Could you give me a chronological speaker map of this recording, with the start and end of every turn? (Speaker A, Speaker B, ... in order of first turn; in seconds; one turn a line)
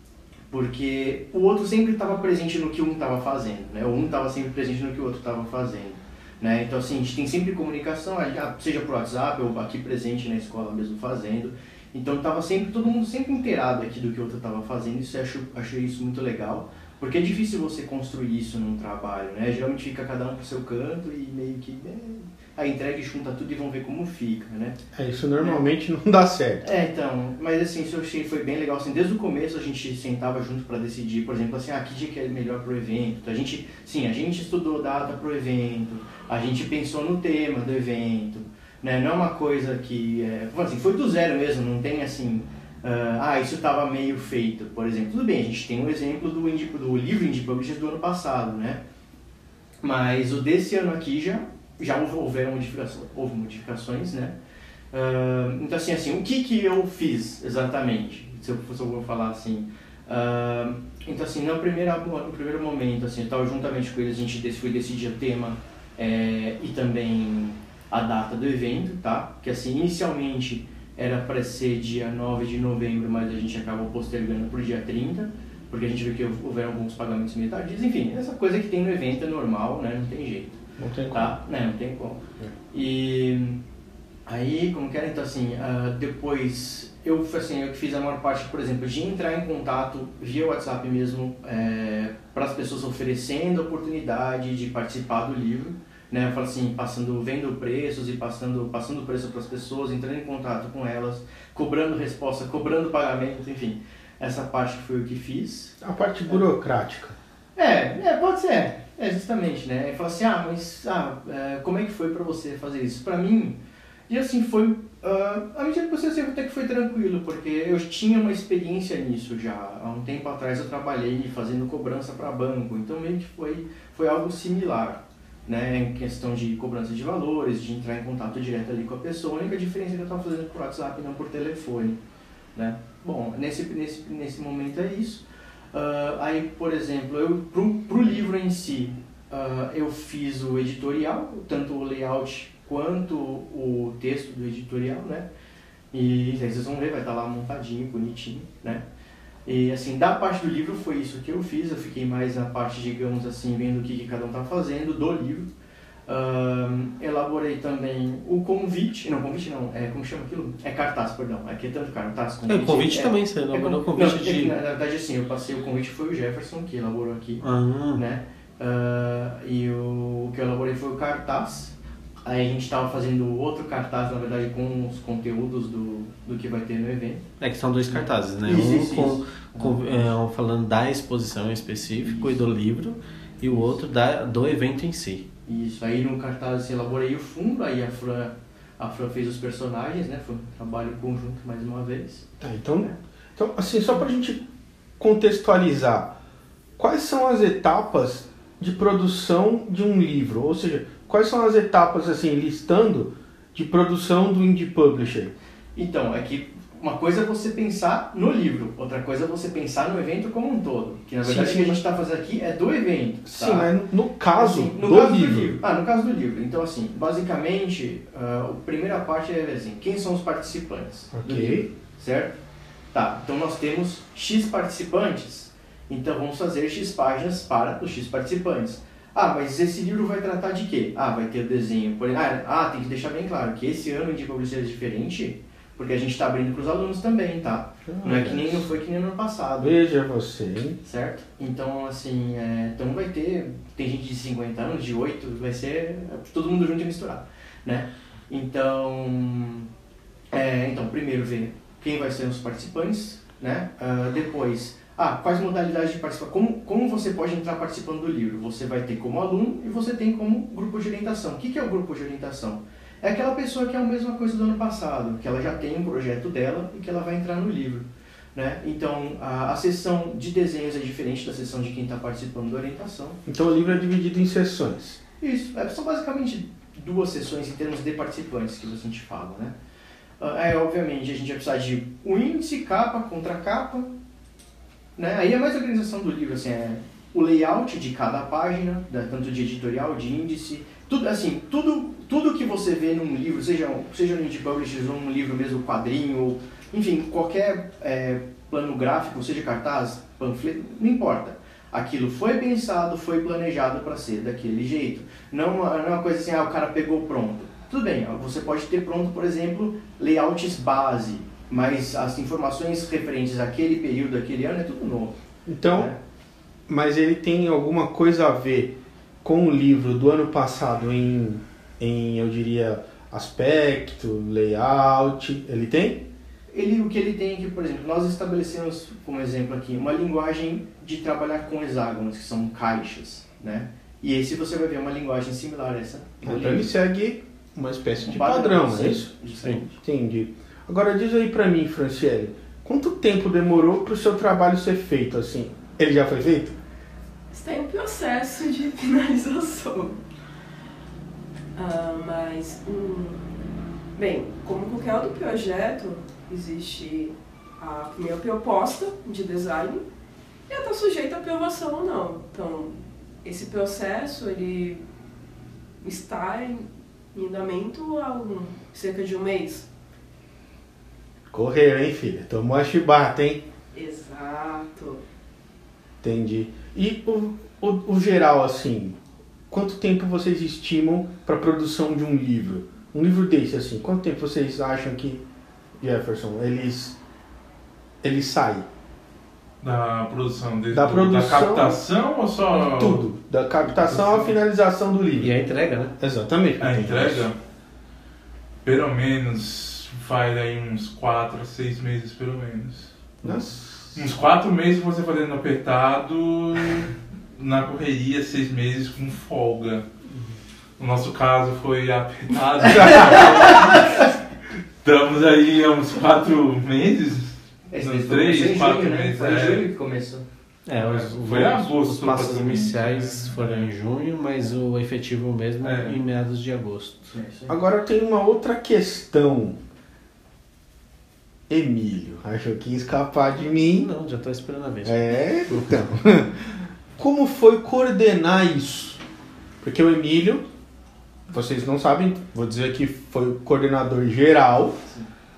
Speaker A: 0.5-24.8
Speaker B: 24.9-26.7
Speaker A: 25.4-25.6
Speaker A: 26.6-48.8
Speaker A: 49.8-54.4
Speaker A: 54.9-83.6
Speaker B: 80.8-81.4
Speaker A: 84.2-105.8
Speaker B: 105.8-107.2
Speaker A: 107.5-132.0
Speaker A: 132.5-145.3
Speaker A: 145.9-148.8
Speaker A: 149.4-155.5
Speaker A: 156.1-177.3
Speaker C: 162.5-164.5
Speaker C: 167.4-168.0
Speaker C: 177.4-185.2
Speaker A: 177.9-180.1
Speaker A: 182.0-182.4
Speaker A: 185.4-193.0
Speaker B: 192.4-194.4
Speaker B: 195.0-196.2
Speaker B: 196.8-205.3
Speaker A: 205.8-213.7
Speaker B: 211.2-211.8
Speaker B: 213.3-215.6
Speaker A: 214.3-222.4
Speaker B: 221.1-221.7
Speaker A: 222.9-239.8
Speaker B: 237.9-238.7
Speaker B: 239.6-240.8
Speaker A: 240.8-249.7
Speaker A: 250.3-273.2
Speaker B: 273.2-275.0
Speaker A: 275.2-279.6
Speaker A: 280.2-283.9
Speaker A: 284.9-315.2
Speaker B: 315.5-315.9
Speaker A: 315.7-316.0
Speaker B: 316.7-326.1
Speaker A: 326.5-336.7
Speaker B: 336.2-339.1
Speaker A: 338.0-339.8
Speaker B: 339.8-346.6
Speaker D: 347.3-350.0
Speaker D: 351.5-353.2
Speaker D: 353.9-359.8
Speaker D: 360.5-364.8
Speaker D: 365.8-369.7
Speaker B: 371.3-373.4
Speaker D: 373.7-375.0
Speaker B: 376.0-379.0
Speaker B: 379.5-385.2
Speaker B: 385.8-387.0
Speaker B: 388.0-388.7
Speaker E: 389.6-393.0
Speaker B: 390.7-391.8
Speaker B: 392.5-395.3
Speaker E: 393.8-394.2
Speaker C: 395.2-395.9
Speaker B: 396.0-397.3
Speaker E: 396.6-397.4
Speaker E: 398.6-403.4
Speaker B: 403.2-404.0
Speaker E: 403.9-409.9
Speaker E: 410.8-414.1
Speaker A: 412.6-413.9
Speaker B: 412.7-413.3
Speaker E: 414.8-419.6
Speaker A: 417.7-420.2
Speaker C: 420.7-427.1
Speaker E: 420.8-423.7
Speaker E: 425.6-426.0
Speaker A: 427.1-427.6
Speaker B: 427.5-429.6
Speaker B: 431.5-433.9
Speaker C: 433.6-435.9
Speaker B: 434.8-439.0
Speaker B: 439.6-440.4
Speaker B: 441.3-444.8